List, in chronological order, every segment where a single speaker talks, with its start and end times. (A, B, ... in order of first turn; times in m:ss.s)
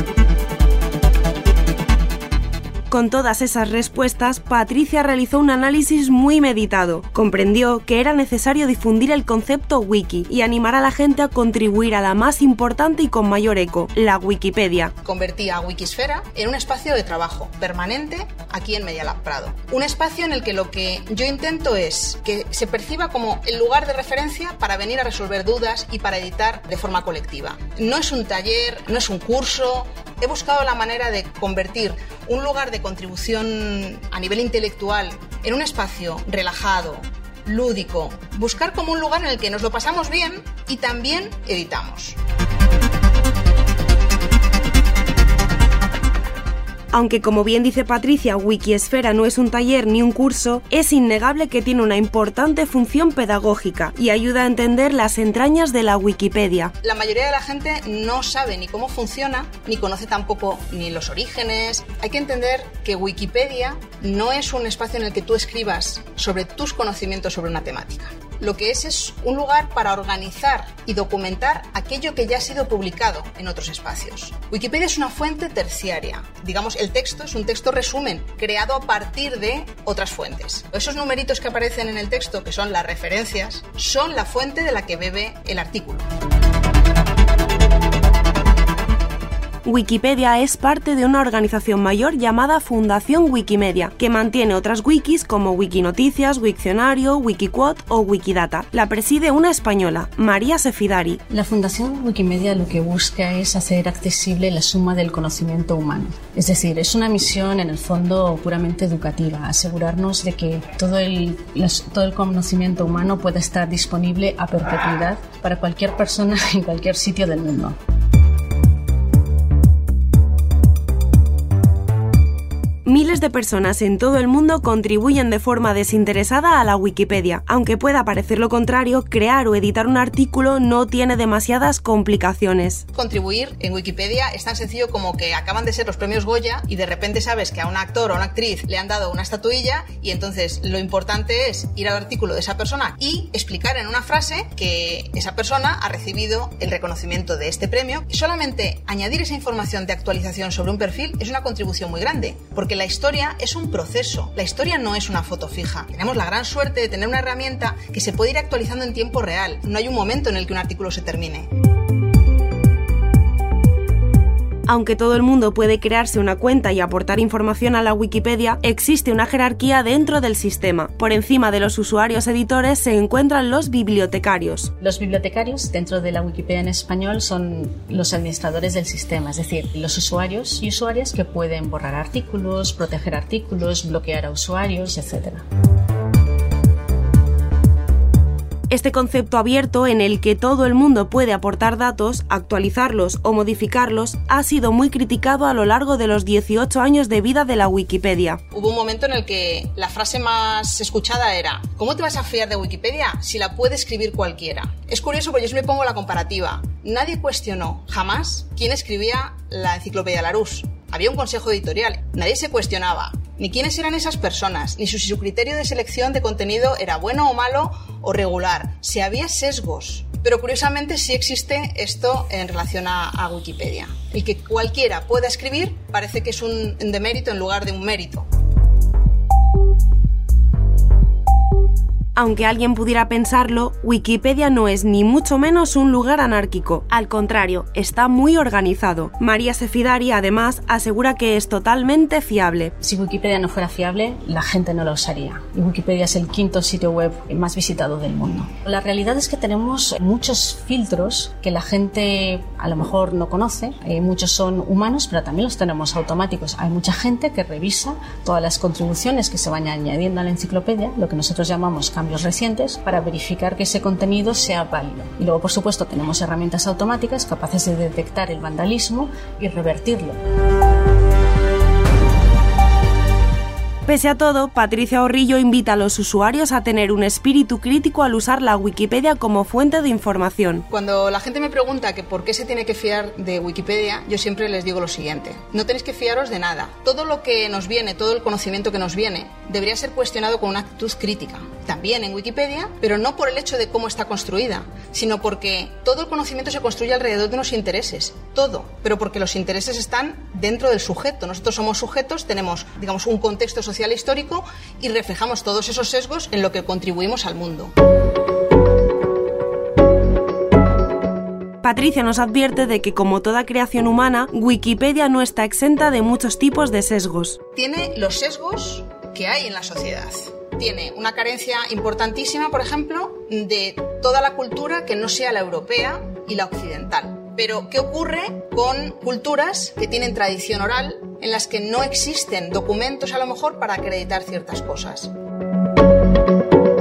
0:02.9-0:14.9 A
0:15.0-0:42.2 B
0:46.9-0:56.7 A
0:56.8-1:26.1 B
1:29.6-1:41.2 A
1:41.3-1:57.8 C
2:02.8-2:12.8 A
2:12.9-2:41.5 B
2:44.7-2:54.7 A
2:54.8-3:05.4 C
3:08.7-3:18.4 A
3:18.5-3:48.3 B
3:52.2-4:02.7 A
4:02.8-4:30.2 C
4:33.9-4:40.6 A
4:40.7-5:07.7 B
5:11.6-5:17.4 A
5:17.6-5:35.1 B